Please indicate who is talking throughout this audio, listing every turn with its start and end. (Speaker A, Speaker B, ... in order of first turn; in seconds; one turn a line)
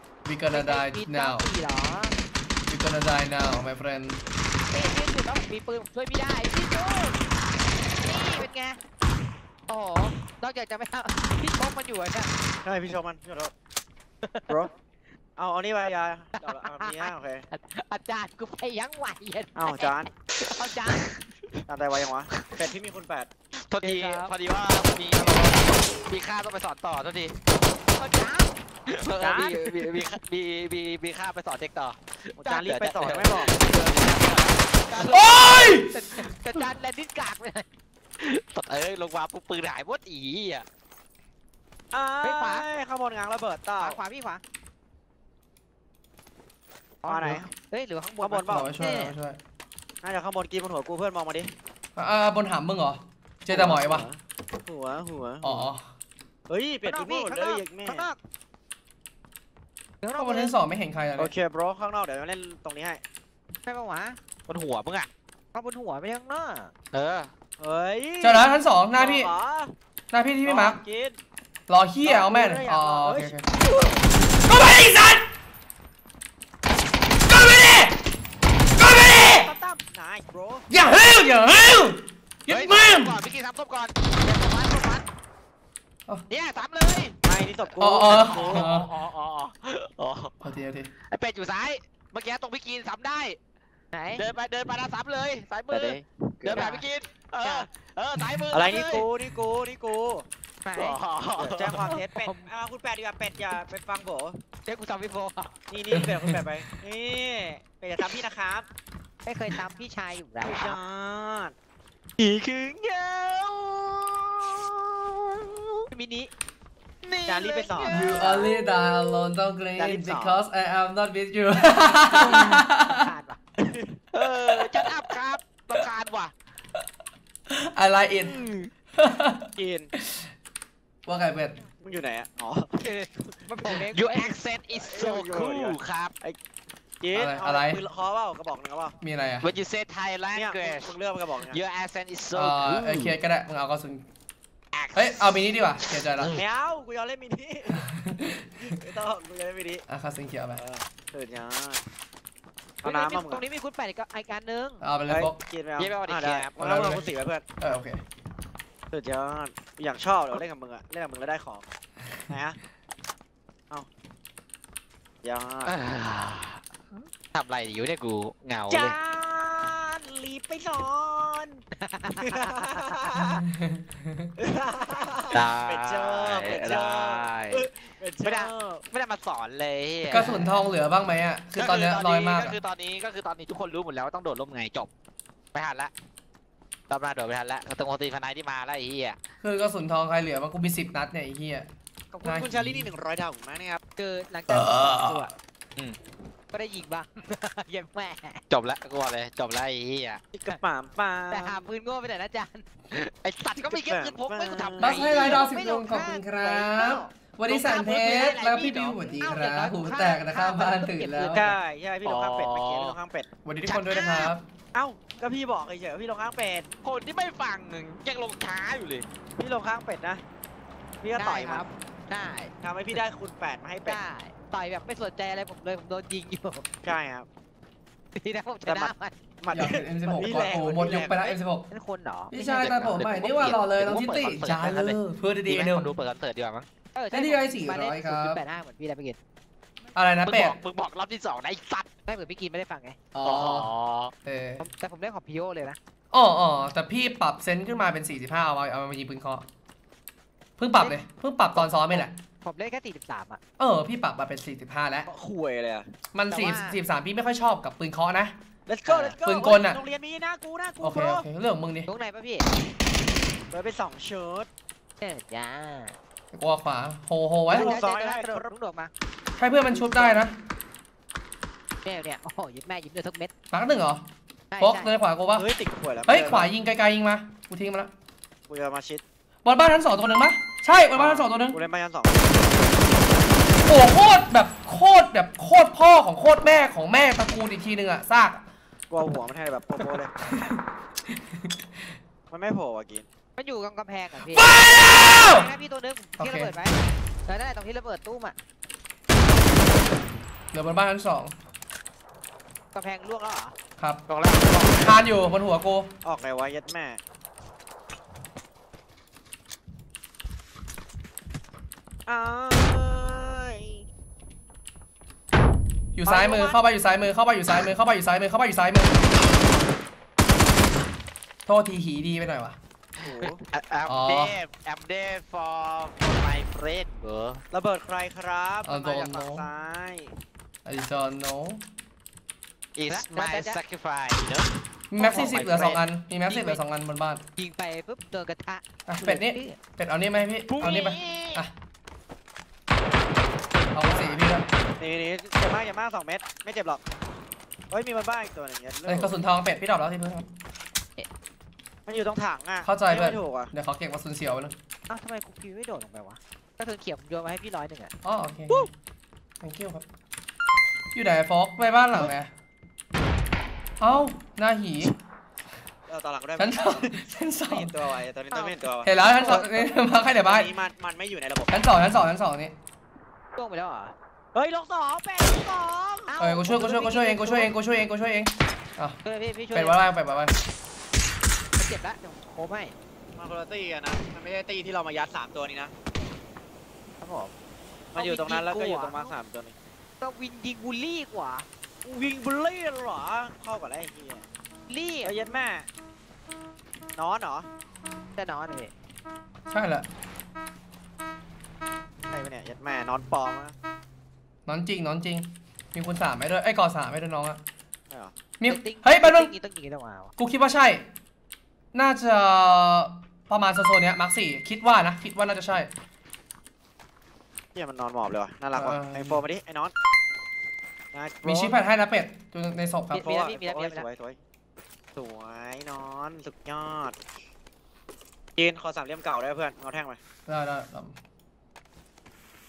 Speaker A: 0.2-1.5
Speaker B: 0.5-2.1
Speaker A: 2.7-4.2
Speaker B: 4.7-7.2
Speaker B: 8.0-8.8
Speaker B: 9.7-12.3
Speaker C: 12.6-13.5
Speaker B: 14.2-14.7
Speaker C: 15.4-17.4
Speaker B: 16.3-21.1
Speaker C: 19.6-20.1
Speaker D: 20.9-21.6
Speaker C: 21.7-23.3
Speaker D: 22.3-22.6
Speaker D: 23.7-27.3
Speaker B: 23.8-24.3
Speaker B: 28.0-28.5
Speaker D: 28.9-35.2
Speaker C: 29.2-29.9
Speaker C: 32.4-33.5
Speaker B: 34.9-37.6
Speaker A: 35.1-35.9
Speaker D: 38.2-40.6
Speaker C: 41.9-44.0
Speaker B: 42.2-42.6
Speaker B: 43.8-44.4
Speaker B: 47.0-49.1
Speaker C: 47.0-47.5
Speaker C: 48.2-48.8
Speaker A: 48.5-49.4
Speaker C: 50.0-51.5
Speaker A: 52.0-54.0
Speaker C: 53.5-55.7
Speaker A: 55.4-55.8
Speaker C: 56.5-58.0
Speaker B: 56.8-58.2
Speaker B: 60.0-60.5
Speaker A: 60.2-61.3
Speaker C: 61.1-63.0
Speaker B: 63.6-64.2
Speaker D: 64.5-65.1
Speaker B: 65.5-66.7
Speaker D: 66.9-67.3
Speaker C: 67.6-69.7
Speaker A: 68.2-69.3
Speaker A: 70.1-70.8
Speaker C: 70.4-71.2
Speaker A: 71.7-73.5
Speaker C: 72.0-73.3
Speaker A: 74.5-75.2
Speaker A: 77.3-77.9
Speaker A: 78.8-79.5
Speaker C: 79.2-80.7
Speaker A: 80.7-83.2
Speaker D: 82.5-83.9
Speaker B: 84.2-85.0
Speaker D: 86.3-87.2
Speaker C: 87.2-88.7
Speaker A: 87.8-88.9
Speaker D: 88.1-90.3
Speaker A: 90.4-90.9
Speaker D: 91.1-93.4
Speaker B: 93.9-94.2
Speaker D: 94.1-99.1
Speaker C: 95.7-96.7
Speaker B: 96.5-96.8
Speaker B: 97.4-97.7
Speaker C: 98.5-100.2
Speaker B: 100.6-101.0
Speaker D: 100.8-102.0
Speaker C: 101.3-104.4
Speaker B: 101.8-102.5
Speaker B: 104.7-105.5
Speaker C: 105.7-108.7
Speaker A: 105.9-106.4
Speaker B: 109.2-110.8
Speaker C: 110.4-111.5
Speaker D: 112.2-115.9
Speaker B: 115.9-116.3
Speaker D: 117.0-118.5
Speaker C: 117.3-118.4
Speaker A: 117.9-123.1
Speaker C: 119.8-120.4
Speaker B: 121.5-123.4
Speaker D: 122.2-122.6
Speaker C: 123.6-124.0
Speaker D: 124.1-126.3
Speaker A: 127.5-128.4
Speaker D: 128.1-128.7
Speaker A: 128.9-130.3
Speaker C: 129.6-129.9
Speaker A: 131.1-131.6
Speaker C: 131.8-133.3
Speaker B: 132.8-134.4
Speaker D: 133.7-136.1
Speaker C: 134.7-136.4
Speaker C: 137.0-138.9
Speaker A: 137.1-137.8
Speaker A: 139.0-139.5
Speaker D: 139.4-140.9
Speaker C: 140.3-141.6
Speaker D: 141.5-143.2
Speaker A: 142.3-144.0
Speaker D: 144.7-146.4
Speaker A: 144.9-146.3
Speaker C: 146.3-147.8
Speaker A: 147.7-148.5
Speaker C: 148.4-149.8
Speaker A: 149.9-150.6
Speaker C: 150.6-151.8
Speaker C: 152.8-153.4
Speaker B: 152.8-154.8
Speaker A: 154.8-155.3
Speaker C: 155.1-157.4
Speaker D: 155.8-156.5
Speaker A: 156.6-157.1
Speaker A: 157.6-158.0
Speaker C: 158.9-161.7
Speaker C: 162.3-162.6
Speaker C: 165.2-165.7
Speaker D: 165.7-168.9
Speaker C: 168.7-171.6
Speaker B: 171.8-173.1
Speaker C: 172.2-173.4
Speaker A: 173.5-174.3
Speaker C: 174.4-178.8
Speaker D: 175.3-177.7
Speaker D: 178.2-180.2
Speaker A: 180.1-182.6
Speaker B: 180.1-180.5
Speaker D: 181.6-184.9
Speaker D: 185.5-185.9
Speaker D: 186.9-189.2
Speaker A: 189.4-191.7
Speaker C: 192.1-193.8
Speaker A: 192.2-192.9
Speaker B: 194.0-195.3
Speaker A: 194.5-195.2
Speaker B: 196.5-198.4
Speaker D: 198.5-200.2
Speaker C: 200.3-201.6
Speaker B: 201.3-202.6
Speaker D: 202.9-205.4
Speaker C: 203.7-205.3
Speaker A: 204.8-211.4
Speaker B: 205.2-211.6
Speaker C: 207.5-208.9
Speaker C: 211.3-213.3
Speaker D: 212.0-213.0
Speaker A: 213.4-214.4
Speaker B: 213.6-214.3
Speaker C: 214.7-216.7
Speaker D: 216.8-219.1
Speaker C: 219.4-220.2
Speaker C: 221.0-221.6
Speaker B: 221.1-222.5
Speaker C: 222.6-224.0
Speaker B: 223.9-226.6
Speaker C: 226.8-227.3
Speaker B: 228.2-229.2
Speaker C: 228.7-231.4
Speaker A: 229.5-231.7
Speaker B: 231.7-232.3
Speaker A: 232.3-235.9
Speaker D: 232.3-236.7
Speaker B: 236.9-239.2
Speaker A: 237.1-238.4
Speaker A: 239.9-240.6
Speaker D: 240.2-241.8
Speaker B: 242.1-243.0
Speaker A: 243.1-243.7
Speaker D: 243.2-244.1
Speaker A: 244.2-244.7
Speaker B: 244.6-245.8
Speaker A: 246.1-249.4
Speaker A: 250.6-252.1
Speaker B: 252.4-253.4
Speaker A: 253.6-255.1
Speaker C: 255.1-255.9
Speaker A: 256.1-258.3
Speaker B: 256.3-256.8
Speaker C: 258.7-261.2
Speaker D: 258.8-259.1
Speaker A: 259.2-259.8
Speaker A: 260.8-261.9
Speaker B: 261.9-262.5
Speaker C: 263.5-264.5
Speaker B: 265.0-265.9
Speaker A: 266.3-267.8
Speaker B: 267.5-268.9
Speaker C: 267.5-268.4
Speaker A: 269.4-270.3
Speaker B: 271.8-273.3
Speaker A: 273.5-274.0
Speaker B: 274.5-274.9
Speaker A: 274.6-275.5
Speaker C: 275.3-276.5
Speaker A: 276.1-277.9
Speaker C: 278.5-279.0
Speaker A: 279.4-281.6
Speaker C: 280.9-282.6
Speaker A: 283.6-288.4
Speaker C: 288.9-290.1
Speaker A: 290.2-291.7
Speaker C: 292.3-293.1
Speaker B: 293.4-298.4
Speaker A: 294.3-295.4
Speaker A: 296.2-296.5
Speaker A: 300.5-301.3
Speaker B: 302.7-303.5
Speaker D: 304.1-305.0
Speaker A: 304.8-305.9
Speaker C: 306.0-307.0
Speaker C: 312.1-313.8
Speaker A: 315.9-319.0
Speaker C: 316.1-316.6
Speaker A: 321.4-322.6
Speaker C: 323.0-323.4
Speaker D: 323.5-327.4
Speaker A: 323.9-324.4
Speaker C: 327.5-330.1
Speaker A: 328.6-329.4
Speaker A: 330.6-331.6
Speaker D: 332.8-334.5
Speaker B: 332.9-333.6
Speaker A: 334.9-337.2
Speaker B: 335.0-335.7
Speaker D: 335.1-335.8
Speaker B: 336.3-336.6
Speaker B: 337.4-339.6
Speaker A: 338.9-341.5
Speaker D: 340.5-341.4
Speaker A: 343.7-344.4
Speaker C: 343.8-344.2
Speaker C: 344.8-346.8
Speaker C: 347.7-349.1
Speaker A: 348.9-350.3
Speaker C: 351.9-353.5
Speaker A: 352.6-354.5
Speaker B: 354.9-357.9
Speaker A: 358.0-358.7
Speaker A: 359.4-359.8
Speaker A: 360.9-362.3
Speaker A: 363.8-364.9
Speaker C: 365.9-371.6
Speaker A: 366.4-367.7
Speaker B: 368.3-369.4
Speaker A: 368.8-370.5
Speaker A: 371.5-372.5
Speaker B: 373.4-373.9
Speaker C: 374.3-376.1
Speaker B: 376.1-377.5
Speaker A: 376.2-379.0
Speaker B: 379.0-379.8
Speaker A: 379.5-380.3
Speaker B: 381.6-382.7
Speaker C: 383.1-385.7
Speaker B: 387.0-387.3
Speaker C: 387.9-389.5
Speaker B: 387.9-389.1
Speaker B: 390.0-391.5
Speaker C: 391.8-394.2
Speaker B: 394.7-395.1
Speaker C: 395.0-395.7
Speaker C: 397.0-397.5
Speaker B: 398.1-398.7
Speaker A: 399.5-399.9
Speaker C: 402.1-403.5
Speaker A: 404.5-407.4
Speaker A: 408.4-409.3
Speaker B: 408.4-410.1
Speaker A: 410.2-410.8
Speaker A: 411.7-415.7
Speaker C: 417.5-419.7
Speaker A: 418.5-419.2
Speaker C: 420.9-421.6
Speaker A: 421.2-423.0
Speaker B: 422.9-423.9
Speaker C: 422.9-424.2
Speaker C: 424.9-427.0
Speaker C: 428.4-430.0
Speaker A: 430.3-430.9